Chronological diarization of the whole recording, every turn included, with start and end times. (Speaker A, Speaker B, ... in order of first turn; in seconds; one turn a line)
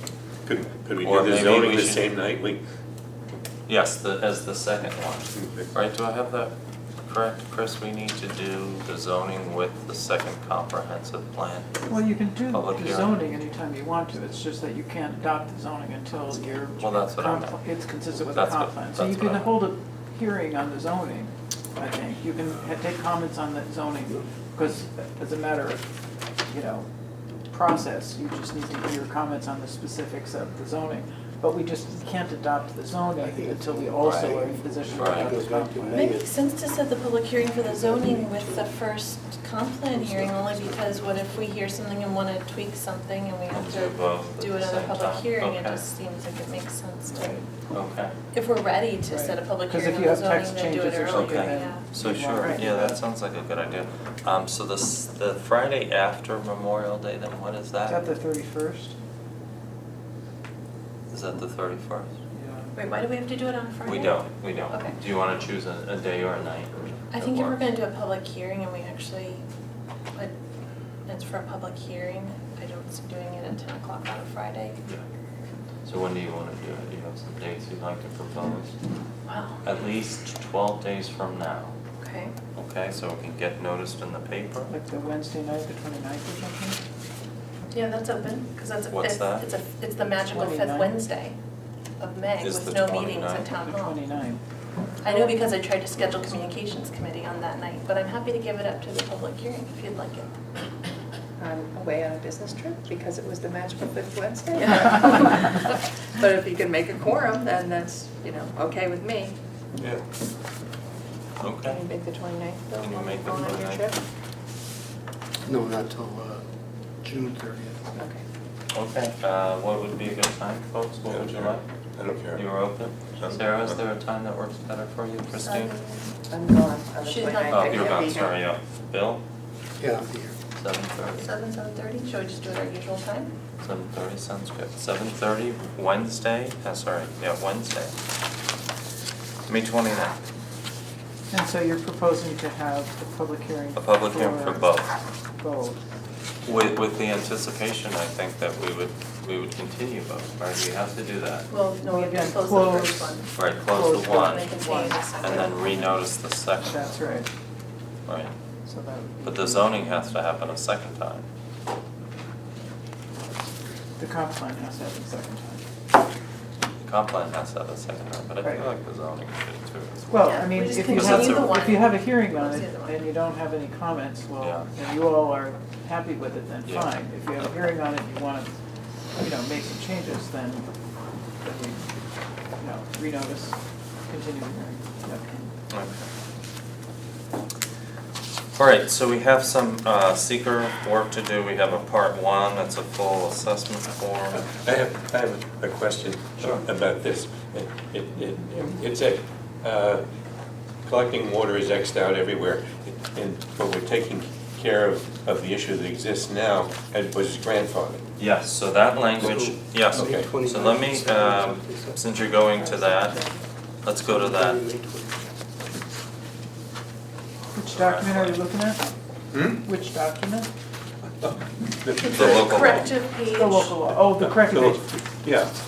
Speaker A: 0.5-2.6
Speaker B: 1.0-2.0
Speaker B: 3.7-11.8
Speaker A: 5.4-5.7
Speaker C: 11.9-25.8
Speaker B: 12.5-13.2
Speaker B: 16.8-17.6
Speaker B: 18.3-19.6
Speaker C: 26.5-26.9
Speaker C: 27.5-36.0
Speaker D: 33.2-36.4
Speaker B: 34.9-35.3
Speaker E: 35.9-47.4
Speaker D: 37.6-38.7
Speaker D: 40.0-41.0
Speaker B: 43.5-45.8
Speaker C: 47.1-47.4
Speaker B: 47.7-48.1
Speaker E: 48.3-51.9
Speaker C: 49.1-53.0
Speaker B: 51.0-58.1
Speaker C: 57.9-59.0
Speaker B: 61.1-62.1
Speaker C: 62.3-62.7
Speaker E: 62.8-65.0
Speaker B: 63.9-67.6
Speaker E: 67.1-69.5
Speaker E: 71.1-74.8
Speaker B: 75.8-78.7
Speaker E: 79.3-79.6
Speaker B: 79.6-81.7
Speaker E: 82.0-82.3
Speaker B: 82.5-84.7
Speaker C: 84.7-86.8
Speaker E: 87.7-91.4
Speaker B: 88.9-89.5
Speaker C: 90.3-91.0
Speaker E: 92.0-94.0
Speaker B: 92.4-93.5
Speaker C: 93.5-94.4
Speaker E: 95.0-100.3
Speaker C: 95.1-95.3
Speaker F: 101.4-109.3
Speaker B: 111.4-111.8
Speaker F: 111.7-114.0
Speaker B: 112.8-113.9
Speaker D: 115.5-116.5
Speaker D: 117.0-117.9
Speaker B: 118.7-121.6
Speaker A: 121.1-122.4
Speaker B: 122.3-125.7
Speaker E: 125.4-126.2
Speaker F: 126.3-127.4
Speaker E: 127.0-128.3
Speaker B: 127.5-129.2
Speaker D: 129.8-130.4
Speaker B: 130.6-131.3
Speaker E: 131.2-133.3
Speaker B: 133.6-137.9
Speaker B: 139.5-140.2
Speaker C: 141.3-144.8
Speaker B: 143.8-144.9
Speaker C: 145.4-145.8
Speaker B: 146.4-151.5
Speaker E: 151.5-153.3
Speaker C: 151.8-156.0
Speaker B: 153.3-154.5
Speaker E: 154.1-155.8
Speaker B: 155.2-156.9
Speaker C: 156.6-157.3
Speaker B: 158.1-158.3
Speaker C: 158.7-159.8
Speaker B: 159.2-161.3
Speaker C: 164.0-165.6
Speaker B: 166.8-171.8
Speaker C: 168.4-168.7
Speaker C: 170.1-178.5
Speaker E: 170.2-173.0
Speaker B: 174.4-174.7
Speaker C: 179.2-180.7
Speaker C: 181.4-181.9
Speaker C: 182.6-183.6
Speaker C: 184.1-185.5
Speaker B: 185.7-186.1
Speaker B: 188.6-194.4
Speaker A: 194.4-200.0
Speaker A: 200.9-208.1
Speaker B: 208.2-213.2
Speaker D: 209.2-212.0
Speaker A: 209.9-210.3
Speaker C: 212.6-213.4
Speaker B: 213.8-214.6
Speaker D: 214.1-215.2
Speaker C: 217.5-218.8
Speaker B: 217.7-218.4
Speaker A: 219.3-219.7
Speaker C: 219.6-220.5
Speaker A: 221.2-222.9
Speaker E: 222.0-223.8
Speaker B: 222.1-222.9
Speaker C: 223.3-224.9
Speaker A: 224.1-225.5